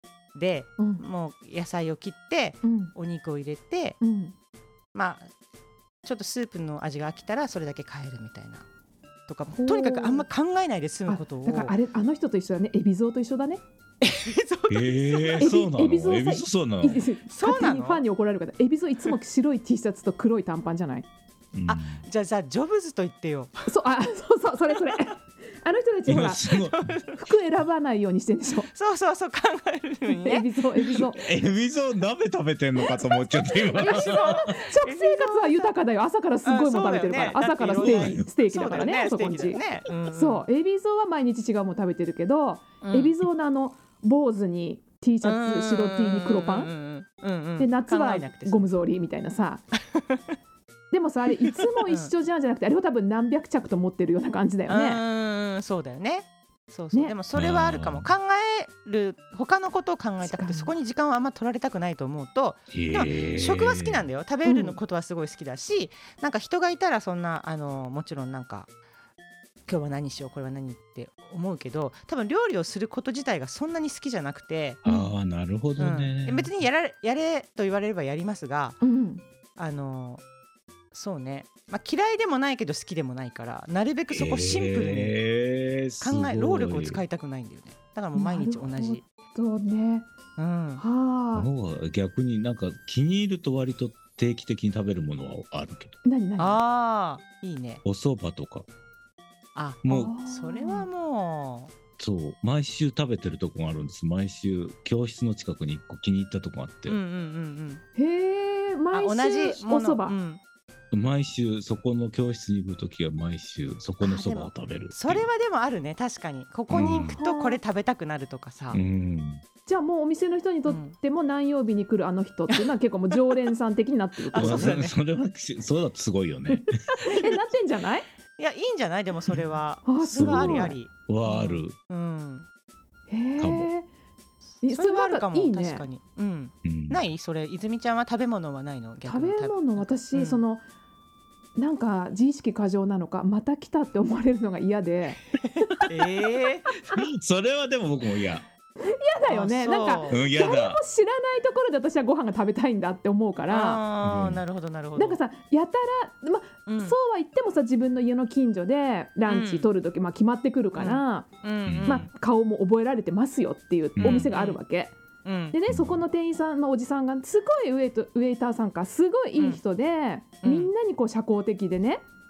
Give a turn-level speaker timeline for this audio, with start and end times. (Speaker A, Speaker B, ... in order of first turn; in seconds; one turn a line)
Speaker A: 0.3-4.0
Speaker B: 2.6-2.9
Speaker B: 4.0-4.3
Speaker A: 4.9-5.3
Speaker A: 6.0-8.6
Speaker A: 9.3-11.7
Speaker B: 9.5-10.2
Speaker B: 11.1-13.6
Speaker A: 14.0-15.5
Speaker C: 14.7-17.0
Speaker B: 15.4-21.1
Speaker A: 17.3-18.0
Speaker C: 21.5-22.0
Speaker A: 21.7-23.7
Speaker B: 23.7-26.5
Speaker C: 26.1-26.9
Speaker A: 26.5-27.2
Speaker B: 27.1-28.7
Speaker A: 28.7-31.0
Speaker B: 30.1-31.2
Speaker C: 31.1-34.4
Speaker A: 33.3-35.7
Speaker B: 33.8-46.7
Speaker A: 36.4-40.5
Speaker C: 37.8-38.3
Speaker A: 42.8-43.1
Speaker A: 45.2-48.6
Speaker B: 47.6-49.6
Speaker A: 49.8-50.2
Speaker B: 50.9-55.0
Speaker A: 51.8-52.1
Speaker A: 54.7-68.7
Speaker C: 57.3-58.1
Speaker B: 60.2-60.7
Speaker C: 62.7-64.0
Speaker B: 64.4-64.8
Speaker A: 69.7-74.8
Speaker C: 74.8-76.5
Speaker A: 75.8-78.8
Speaker B: 78.8-79.2
Speaker A: 79.6-80.2
Speaker A: 80.9-85.1
Speaker C: 84.1-87.0
Speaker A: 86.0-89.0
Speaker B: 88.1-90.1
Speaker A: 90.4-90.8
Speaker B: 90.8-91.5
Speaker C: 91.3-96.0
Speaker B: 96.0-96.6
Speaker A: 96.4-97.8
Speaker C: 97.8-98.7
Speaker A: 99.5-101.7
Speaker C: 99.8-100.1
Speaker B: 99.9-100.9
Speaker C: 102.0-107.0
Speaker A: 106.8-107.8
Speaker B: 108.0-110.2
Speaker A: 108.9-110.4
Speaker C: 110.9-115.3
Speaker A: 114.0-118.8
Speaker C: 116.7-117.2
Speaker B: 116.8-117.6
Speaker C: 118.7-119.4
Speaker B: 119.7-124.8
Speaker A: 120.7-121.0
Speaker A: 124.3-125.0
Speaker C: 124.3-127.0
Speaker B: 126.5-128.1
Speaker A: 128.4-132.5
Speaker B: 129.8-130.8
Speaker C: 130.1-131.7
Speaker B: 133.1-133.9
Speaker C: 133.4-133.7
Speaker A: 134.6-140.4
Speaker B: 134.6-135.8
Speaker C: 136.6-137.0
Speaker B: 139.1-140.6
Speaker B: 141.6-145.2
Speaker A: 145.8-146.7
Speaker C: 146.9-148.4
Speaker B: 148.8-153.8
Speaker A: 149.3-150.2
Speaker C: 150.1-150.8
Speaker A: 153.5-155.2
Speaker C: 154.0-154.4
Speaker B: 154.9-161.3
Speaker A: 156.7-156.9
Speaker A: 159.2-159.7
Speaker A: 160.8-162.1
Speaker C: 161.7-162.0
Speaker B: 161.8-164.9
Speaker C: 163.9-164.3
Speaker A: 164.0-164.6
Speaker A: 165.2-165.6
Speaker B: 165.5-172.0
Speaker C: 165.7-166.0
Speaker A: 170.4-170.7